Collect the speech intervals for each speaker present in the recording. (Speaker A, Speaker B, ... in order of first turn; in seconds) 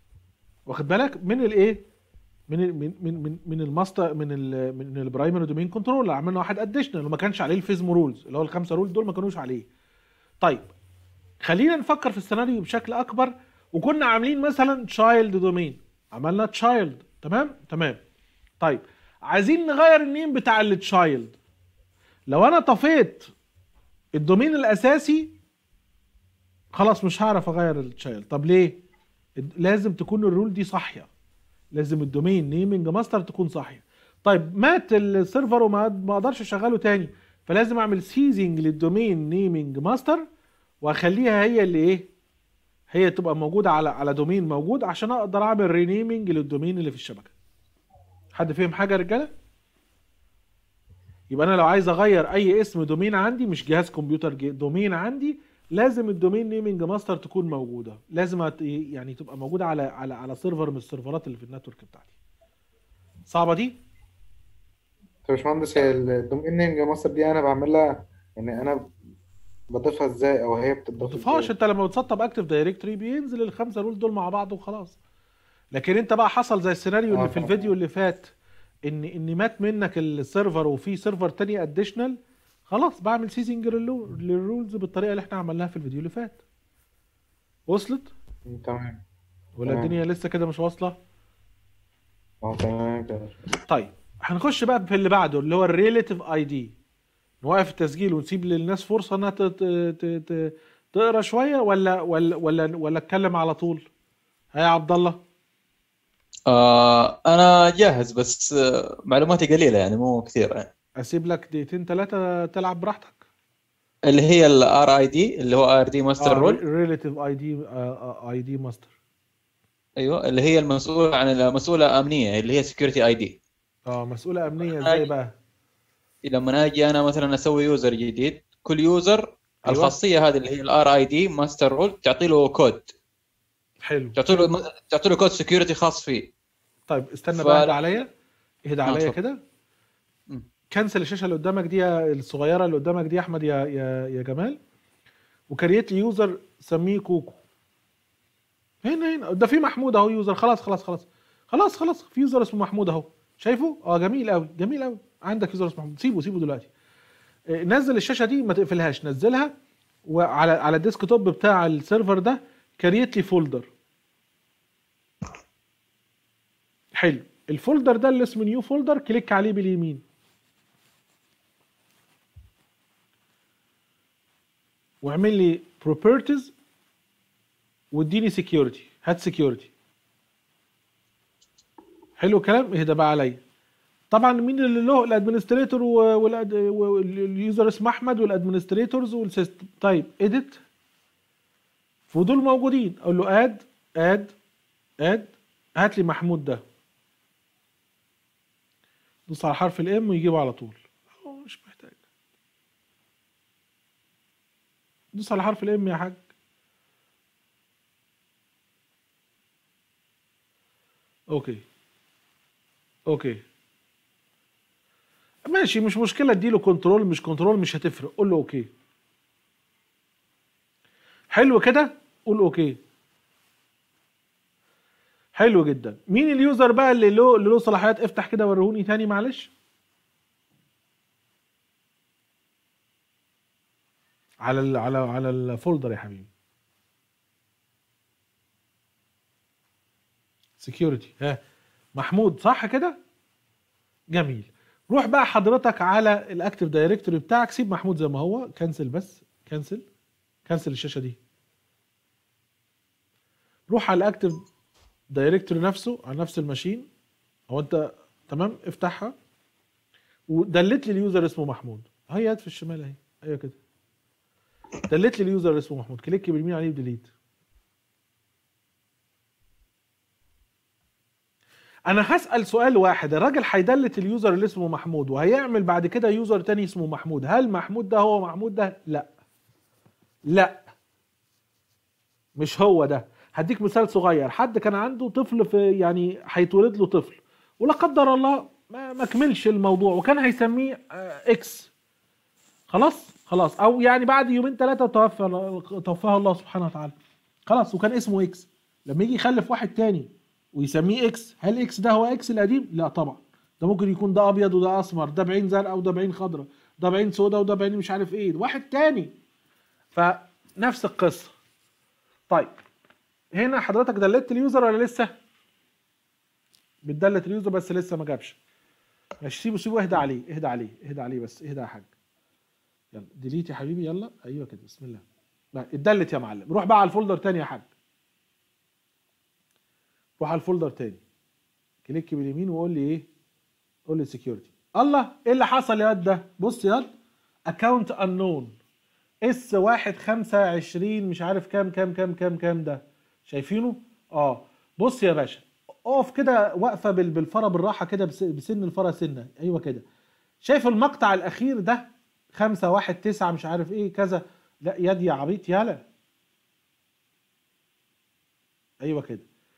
Speaker A: 0.7-1.8, 2.5-9.7, 10.4-10.7, 11.4-18.0, 18.6-21.4, 22.3-23.3, 24.2-25.3, 26.7-28.8, 29.4-31.1, 31.7-40.2, 40.8-42.1, 42.9-47.3, 48.3-49.3, 51.3-62.1, 63.3-63.8, 71.1-75.0, 75.7-78.3, 78.9-86.4, 87.7-88.1, 89.6-91.0, 93.7-96.7, 97.4-103.9, 104.5-105.2, 111.0-113.2, 116.2-118.9, 123.9-125.3, 129.7-129.9, 133.8-134.5, 136.9-138.1, 138.7-139.4, 140.7-144.6, 145.5-147.4, 148.8-156.7, 157.5-159.5, 160.1-163.7, 166.9-170.0, 175.0-176.5, 177.9-179.7, 182.2-183.4, 184.1-190.6, 192.1-194.3, 195.0-196.6, 199.3-202.0, 205.1-206.2, 211.3-211.6, 213.1-213.4, 215.5-218.7, 221.3-222.8, 225.3-229.5, 234.4-236.3, 240.6-241.4, 241.9-243.0, 244.1-249.8, 250.4-251.2, 253.7-254.4, 255.1-256.9, 257.5-259.1, 260.3-263.6, 264.9-267.1, 271.9-279.1, 280.3-280.7, 282.4-291.7, 292.7-296.9, 297.5-309.1, 309.9-311.3, 312.3-312.6, 313.3-315.1, 316.8-318.4, 319.2-321.9, 322.9-325.0, 325.5-327.7, 330.2-331.0, 331.8-333.1, 333.9-336.9, 337.5-338.6, 339.2-349.8, 350.4-355.8, 358.8-359.3
Speaker B: 65.3-68.9, 69.7-71.5, 77.1-77.7, 88.5-89.0, 89.7-90.0, 92.4-93.4
Speaker C: 106.5-110.7, 114.1-116.6, 120.0-123.4, 124.7-125.0, 126.2-132.9, 134.2-136.3, 137.3-137.8, 138.9-139.2